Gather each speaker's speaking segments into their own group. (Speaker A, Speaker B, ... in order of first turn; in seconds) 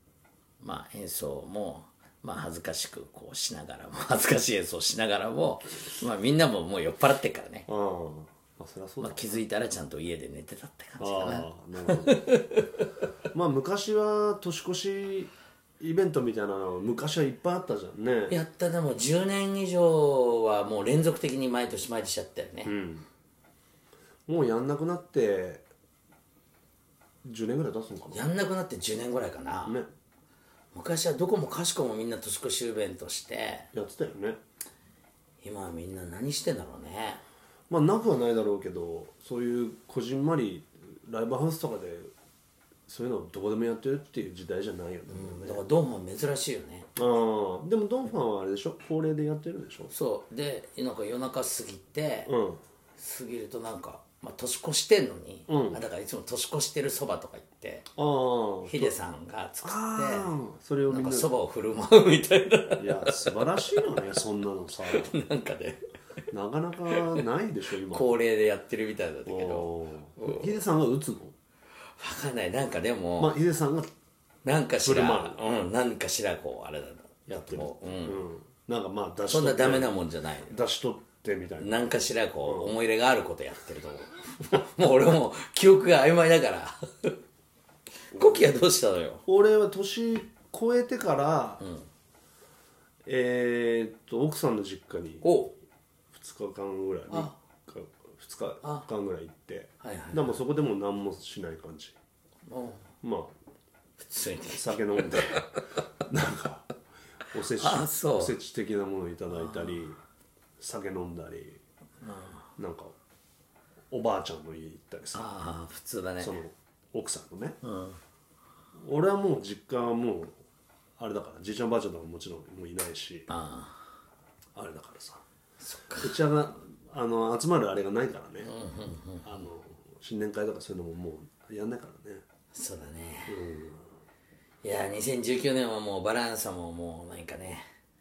Speaker A: 0.6-7.7, 9.0-12.9, 18.3-22.7, 28.1-29.8, 30.7-33.7, 35.4-37.2, 45.1-46.9, 49.9-52.3, 53.0-57.9, 58.6-60.4, 60.9-64.0, 64.9-65.8, 66.9-67.2, 67.8-70.6, 72.0-73.4, 74.5-78.2, 79.3-80.6, 81.6-87.2, 88.1-89.2, 91.6-91.9, 95.2-95.6, 97.1-97.4, 99.8-100.4, 102.5-102.9, 104.0-105.4, 107.5-108.4, 109.3-109.8, 112.0-112.5, 115.1-116.4, 117.6-118.0, 123.3-123.8, 125.6-126.2, 128.4-129.3, 132.5-133.4, 134.6-137.6
Speaker B: 7.7-9.2, 11.0-12.3, 13.3-18.4, 22.7-23.1, 24.3-25.7, 27.2-28.2, 33.7-34.4, 37.7-42.1, 42.9-45.6, 47.0-49.9, 52.3-52.6, 55.5-55.8, 58.0-59.0, 59.6-61.3, 62.8-65.1, 66.3-68.1, 69.3-71.3, 73.2-73.9, 74.8-75.4, 77.3-81.7, 82.5-82.7, 88.2-88.4, 89.3-91.6, 93.1-95.2, 96.1-102.0, 103.0-103.3, 104.5-105.5, 106.1-106.7, 107.3-110.0, 110.6-111.6, 112.6-113.0, 113.9-115.3, 116.2-117.6, 118.8-120.4, 121.0-123.3, 124.5-125.2, 126.0-128.5, 129.2-132.2, 133.3-133.8